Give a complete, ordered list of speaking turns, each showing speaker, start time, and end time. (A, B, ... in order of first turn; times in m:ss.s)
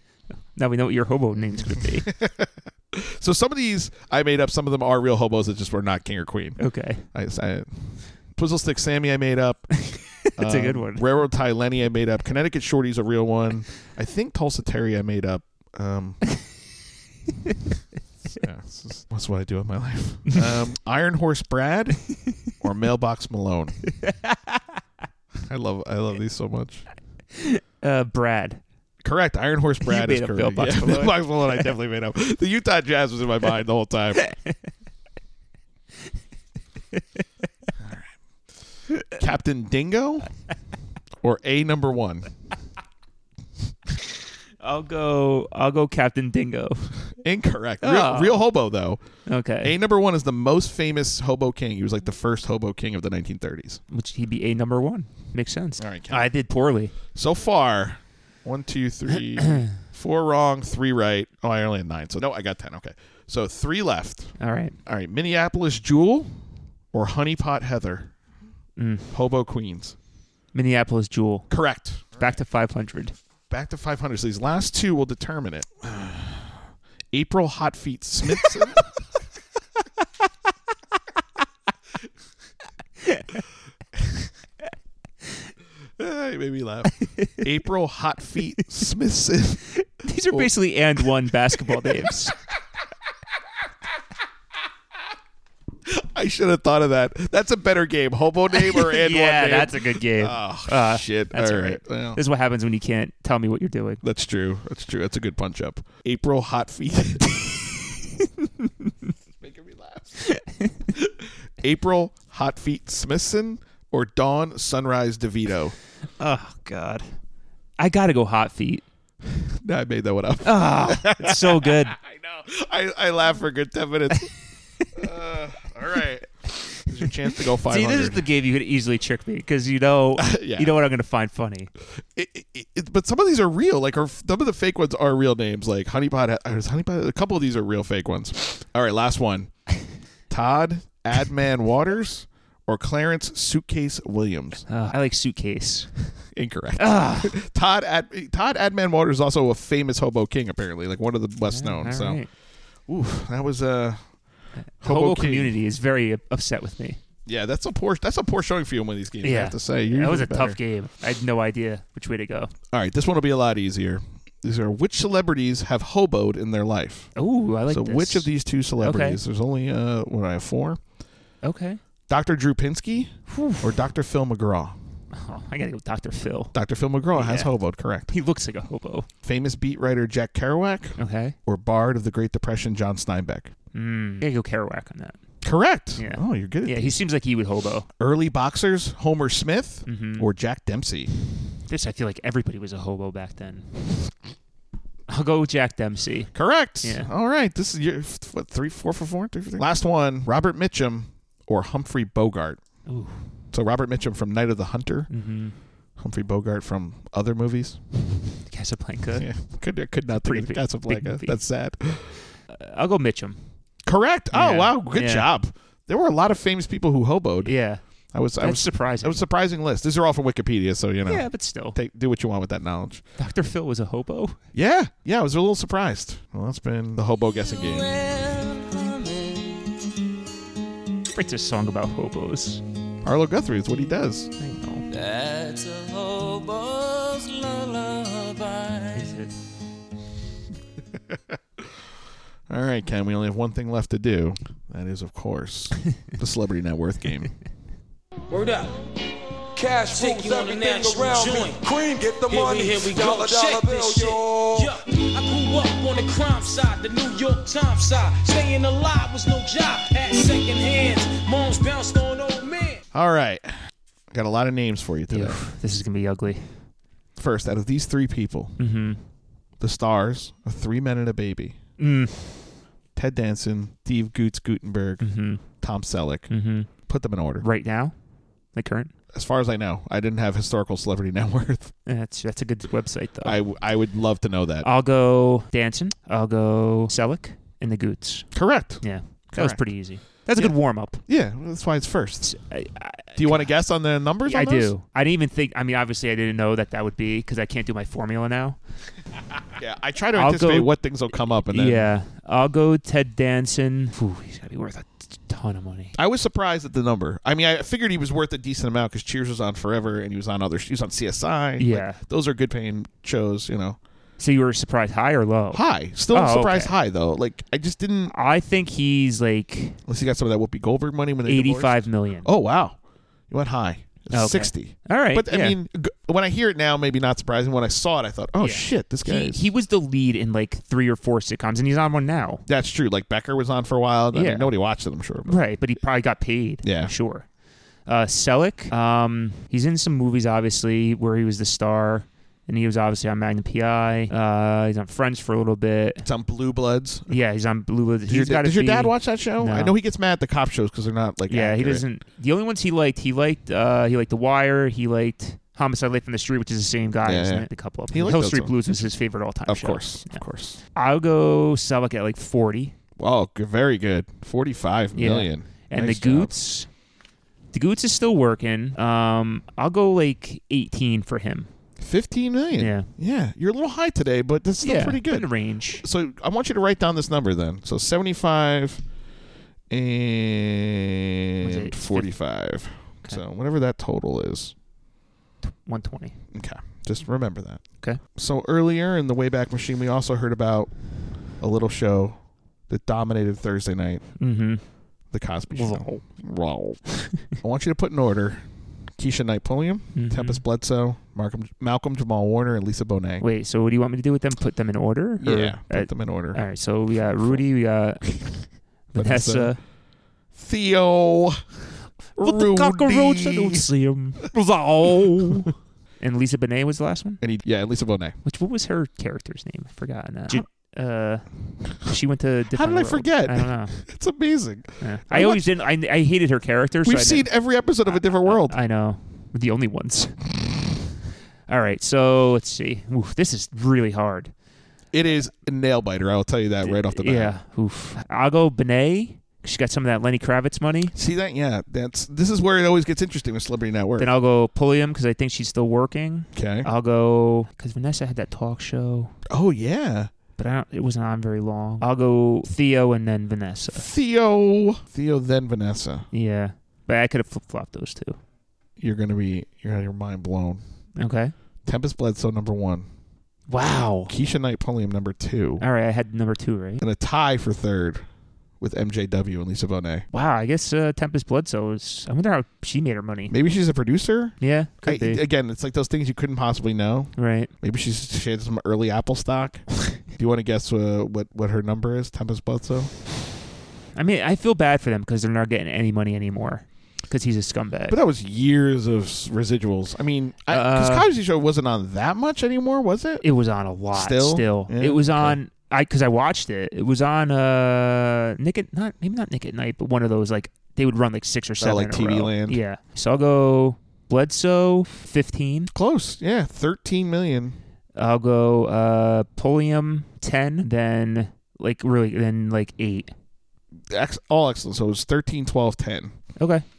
0:00.5-0:02.1 A
0:01.7-0:06.6 B
0:06.6-0:07.0 A
0:07.1-0:09.7 B
0:09.9-0:11.0 A
0:10.4-0:16.2 B
0:18.3-0:22.0 B
0:22.6-0:23.8 B
0:24.0-0:24.5 A
0:25.4-0:26.8 B
0:27.4-0:28.6 A
0:29.0-0:34.2 B
0:29.8-0:31.2 A
0:37.8-0:38.1 B
0:39.2-0:40.3 B
0:41.2-0:42.3 B
0:44.6-0:46.9 A
0:47.2-0:49.0 B
0:47.8-0:48.4 A
0:49.3-0:49.7 A
0:49.6-0:53.8 B
0:53.9-0:56.9 A
0:55.8-0:56.3 B
0:57.1-1:04.3 B
1:04.4-1:04.7 A
1:04.8-1:06.3 B
1:06.9-1:08.1 B
1:08.8-1:09.1 A
1:09.1-1:10.0 B
1:10.5-1:11.5 A
1:11.5-1:12.3 B
1:12.2-1:13.1 A
1:13.5-1:18.8 B
1:23.0-1:23.4 A
1:26.0-1:29.6 B
1:30.0-1:32.3 A
1:35.9-1:42.2 B
1:38.6-1:44.0 A
1:44.0-1:47.3 B
1:49.4-1:50.2 B
1:50.3-1:50.7 A
1:50.9-1:55.7 B
1:56.2-1:57.1 A
1:57.8-1:58.8 A
1:59.3-2:04.3 B
2:00.4-2:02.0 A
2:04.9-2:08.2 B
2:07.6-2:11.7 A
2:10.2-2:10.7 B
2:12.1-2:19.5 B
2:20.3-2:24.6 B
2:24.7-2:25.9 A
2:26.3-2:32.2 B
2:26.8-2:27.3 A
2:31.5-2:32.3 A
2:32.9-2:34.0 B
2:34.8-2:37.0 A
2:34.8-2:35.5 B
2:37.2-2:40.6 B
2:39.2-2:42.5 A
2:42.7-2:47.1 B
2:47.2-2:48.3 A
2:47.7-2:50.8 B
2:48.8-2:49.2 A
2:51.4-2:51.8 A
2:52.1-2:54.8 B
2:53.3-2:53.7 A
2:55.1-2:56.5 A
2:56.5-2:58.1 B
2:57.1-2:57.5 A
2:58.1-2:59.1 A
2:59.2-3:03.5 B
3:01.0-3:01.3 A
3:03.7-3:05.2 A
3:05.4-3:07.0 B
3:06.0-3:07.9 A
3:08.0-3:11.1 B
3:09.9-3:10.2 A
3:11.7-3:13.7 A
3:15.1-3:17.1 A
3:16.3-3:22.6 B
3:22.9-3:23.2 A
3:23.5-3:25.1 B
3:25.1-3:25.6 A
3:26.0-3:27.8 B
3:28.5-3:29.2 A
3:29.1-3:32.2 B
3:30.1-3:31.4 A
3:32.5-3:33.4 A
3:33.8-3:37.5 B
3:34.3-3:35.3 A
3:37.4-3:37.8 A
3:38.1-3:43.0 B
3:38.4-3:39.2 A
3:41.1-3:41.8 A
3:43.2-3:44.4 A
3:44.5-3:47.9 B
3:47.4-3:49.7 C
3:51.1-3:52.6 A
3:53.0-3:54.3 B
3:54.4-3:54.8 A
3:54.9-3:59.1 C
3:58.9-3:59.3 A
4:01.1-4:01.4 B
4:02.5-4:07.3 B
4:08.3-4:08.8 D
4:09.5-4:14.7 E
4:09.8-4:11.6 D
4:12.3-4:22.8 D
4:22.9-4:23.5 B
4:24.1-4:25.4 B
4:25.1-4:26.6 A
4:27.2-4:28.6 B
4:28.6-4:29.0 A
4:29.6-4:31.6 B
4:31.8-4:32.6 A
4:33.0-4:37.4 B
4:35.0-4:35.4 A
4:36.3-4:36.7 A
4:37.4-4:37.9 A
4:38.5-4:38.9 A
4:39.1-4:41.7 B
4:41.8-4:43.4 A
4:43.2-4:44.7 B
4:44.6-4:48.3 A
4:48.3-4:49.6 B
4:48.8-4:51.0 A
4:50.3-4:52.3 B
4:52.2-4:53.5 A
4:53.2-4:54.7 B
4:54.2-4:58.6 A
4:59.6-5:01.9 B
5:00.2-5:06.0 A
5:05.9-5:13.8 B
5:11.6-5:12.0 A
5:14.2-5:16.7 A
5:15.5-5:18.1 B
5:18.1-5:19.8 A
5:19.8-5:22.8 B
5:21.2-5:22.3 A
5:23.3-5:29.5 B
5:24.1-5:25.6 A
5:28.4-5:32.4 A
5:32.5-5:35.4 B
5:34.1-5:34.5 A
5:35.2-5:37.2 A
5:36.6-5:36.9 B
5:37.9-5:46.0 A
5:46.0-5:47.2 B
5:47.1-5:49.7 A
5:48.1-5:51.8 B
5:51.3-6:00.2 A
5:57.0-5:58.5 B
5:59.5-6:00.6 B
6:00.7-6:02.8 A
6:03.0-6:06.3 B
6:04.9-6:06.7 A
6:07.5-6:11.5 A
6:11.8-6:18.8 B
6:12.6-6:12.9 A
6:14.6-6:15.8 A
6:19.7-6:24.5 B
6:21.4-6:22.1 A
6:25.6-6:26.2 A
6:26.3-6:27.6 B
6:28.1-6:30.7 B
6:31.4-6:34.1 B
6:34.2-6:34.6 A
6:35.1-6:38.4 B
6:35.5-6:36.0 A
6:39.0-6:43.2 B
6:39.9-6:40.4 A
6:43.2-6:48.0 A
6:45.2-6:46.4 B
6:46.9-6:47.4 B
6:48.0-6:48.3 B
6:48.9-6:49.6 A
6:48.9-6:49.6 B
6:50.3-6:51.4 B
6:52.1-6:53.6 B
6:52.2-6:55.5 A
6:56.0-6:57.2 A
6:57.2-6:58.2 B
6:58.2-7:03.8 A
7:02.5-7:05.5 B
7:04.8-7:07.3 A
7:06.8-7:08.6 B
7:07.8-7:10.2 A
7:11.5-7:14.3 A
7:14.9-7:17.3 B
7:16.6-7:20.9 A
7:20.9-7:24.1 B
7:24.0-7:29.1 A
7:26.3-7:26.7 B
7:29.3-7:30.1 B
7:30.4-7:33.8 A
7:33.7-7:36.1 B
7:36.1-7:38.2 A
7:38.8-7:40.6 B
7:41.0-7:41.3 A
7:41.6-7:42.9 B
7:43.5-7:44.1 A
7:44.1-7:45.6 B
7:45.6-7:46.8 A
7:46.8-7:48.0 B
7:48.6-7:50.0 B
7:50.1-7:53.3 A
7:53.3-8:02.9 B
7:54.4-7:55.2 A
7:57.2-7:57.5 A
8:04.0-8:08.0 A
8:07.9-8:13.2 B
8:10.5-8:11.1 A
8:13.2-8:25.7 A
8:13.9-8:15.4 B
8:21.6-8:22.6 B
8:25.7-8:27.6 B
8:27.9-8:33.1 A
8:33.9-8:36.2 B
8:36.4-8:36.6 A